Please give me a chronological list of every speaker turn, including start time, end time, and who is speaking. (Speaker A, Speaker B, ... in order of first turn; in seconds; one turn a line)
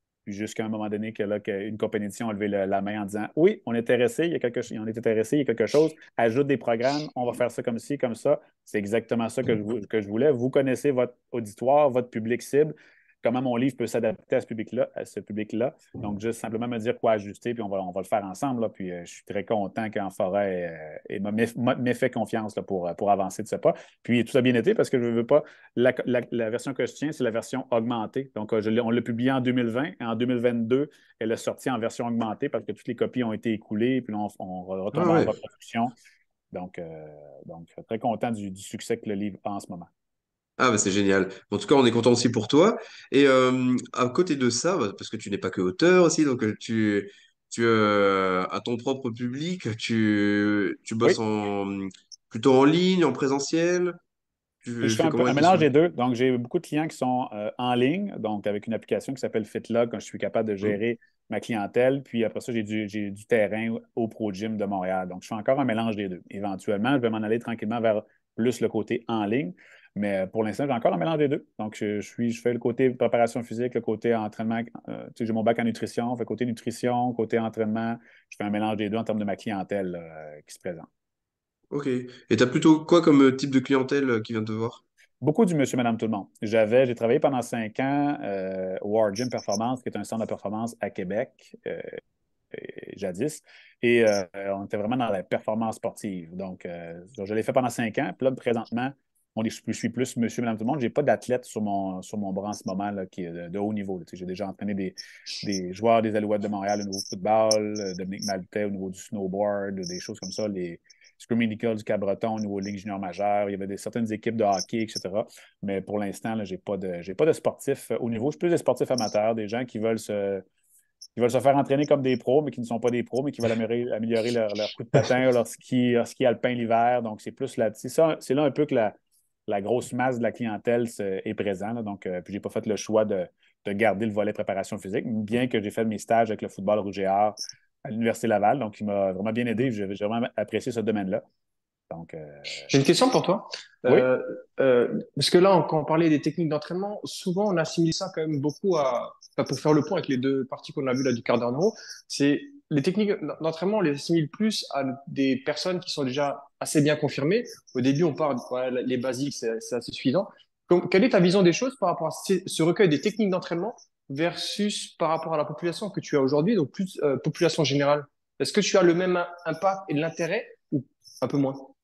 Speaker A: 0.2-35.9
Speaker B: 34.9-35.3
Speaker A: 36.5-39.9
Speaker B: 40.6-53.9
Speaker B: 54.6-55.6
Speaker A: 54.8-80.9
Speaker B: 81.7-84.8
Speaker A: 85.2-91.9
Speaker A: 92.5-120.4
Speaker A: 121.2-128.9
Speaker A: 129.5-141.2
Speaker A: 141.9-142.7
Speaker C: 142.7-171.7